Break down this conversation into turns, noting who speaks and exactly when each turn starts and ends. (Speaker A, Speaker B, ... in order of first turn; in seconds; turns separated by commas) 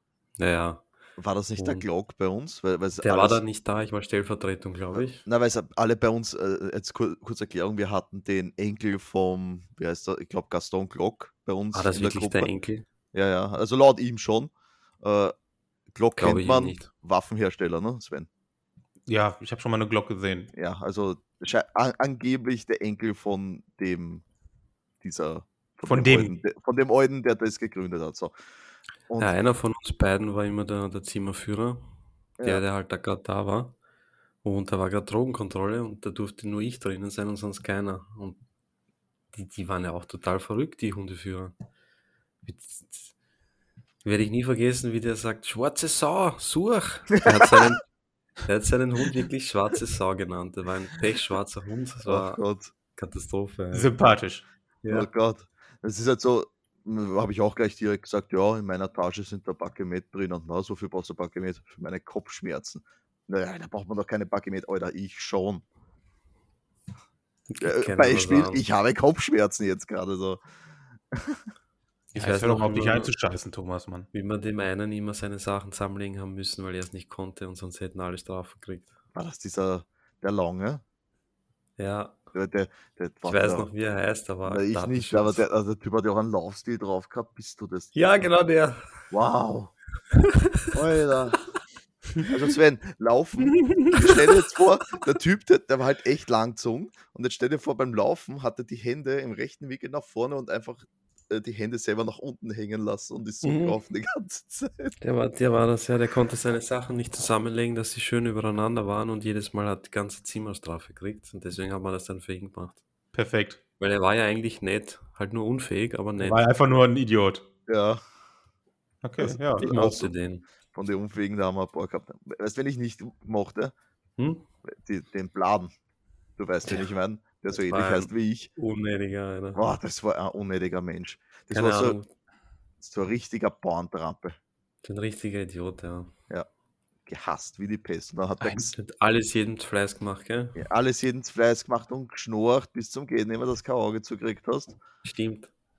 Speaker A: 0.4-0.8, Speaker B: 1.2-3.4, Speaker A: 1.6-1.9, Speaker A: 3.0-5.2, Speaker B: 4.9-12.5, Speaker A: 11.7-12.9, Speaker B: 13.1-15.3, Speaker B: 15.9-18.3, Speaker A: 16.2-16.9, Speaker C: 19.1-20.5, Speaker B: 20.5-24.2, Speaker B: 25.0-28.3, Speaker C: 25.9-26.4, Speaker B: 29.1-29.3, Speaker A: 29.2-31.8, Speaker B: 32.4-32.6, Speaker A: 32.4-33.8, Speaker A: 34.4-38.4, Speaker A: 39.3-41.5, Speaker A: 42.4-43.1, Speaker A: 44.0-47.8, Speaker B: 47.3-47.7, Speaker A: 48.5-52.4, Speaker B: 52.0-52.7, Speaker A: 53.0-53.9, Speaker C: 53.7-54.5, Speaker A: 54.8-55.1, Speaker B: 54.9-65.7, Speaker A: 67.5-68.6, Speaker B: 67.6-70.4, Speaker B: 71.1-71.4, Speaker A: 72.1-73.1, Speaker C: 72.2-74.1, Speaker A: 74.1-79.0, Speaker B: 79.2-80.8, Speaker A: 81.8-82.2, Speaker B: 82.3-83.7, Speaker A: 83.2-85.4, Speaker B: 84.5-87.9, Speaker A: 87.9-88.9, Speaker B: 89.1-89.7, Speaker A: 90.3-90.6, Speaker B: 90.7-91.4, Speaker B: 92.3-105.0, Speaker C: 93.6-94.0, Speaker A: 103.4-103.8, Speaker A: 105.0-112.8, Speaker C: 113.1-113.6, Speaker A: 113.8-116.5, Speaker C: 116.2-117.5, Speaker B: 117.7-118.0, Speaker C: 119.0-119.8, Speaker B: 119.2-120.1, Speaker A: 119.6-120.5, Speaker B: 120.7-123.7, Speaker A: 124.2-124.5, Speaker B: 124.7-125.7, Speaker B: 126.4-128.5, Speaker A: 127.5-129.6, Speaker B: 129.6-132.0, Speaker A: 131.5-132.1, Speaker B: 132.8-134.4, Speaker A: 134.8-136.1, Speaker B: 137.1-138.7, Speaker A: 138.7-140.6, Speaker B: 140.6-144.8, Speaker A: 145.0-145.5